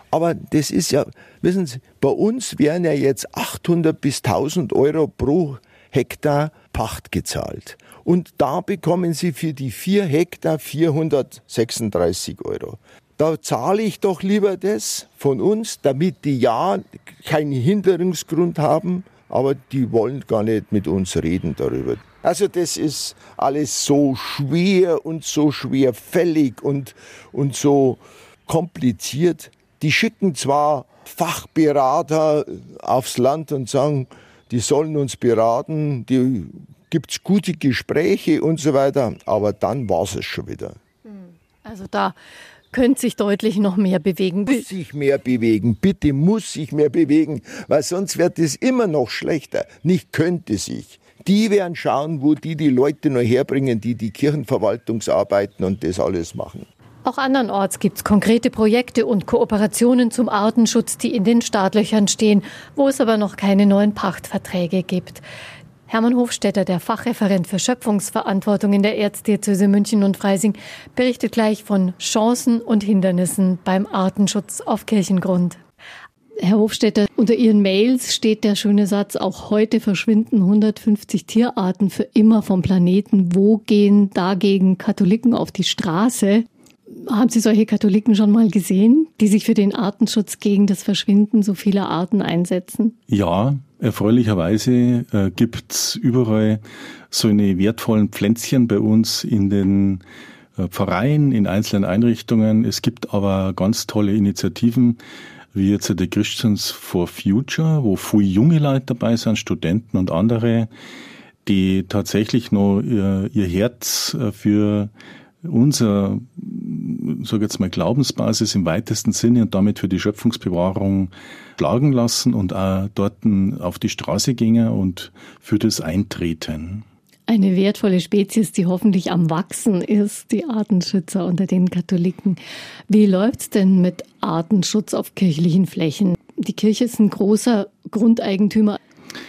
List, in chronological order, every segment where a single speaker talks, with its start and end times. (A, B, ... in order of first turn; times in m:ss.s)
0:00.1-0:40.8 A
0:41.1-0:42.2 B
0:42.7-0:44.7 B
0:44.5-0:56.7 A
0:57.0-1:05.2 B
1:05.9-1:15.6 B
1:16.4-1:32.9 B
1:33.1-1:40.0 C
1:40.6-1:45.0 C
1:45.5-1:50.7 C
1:51.4-1:54.9 C
1:55.4-2:06.8 C
2:07.3-2:18.8 B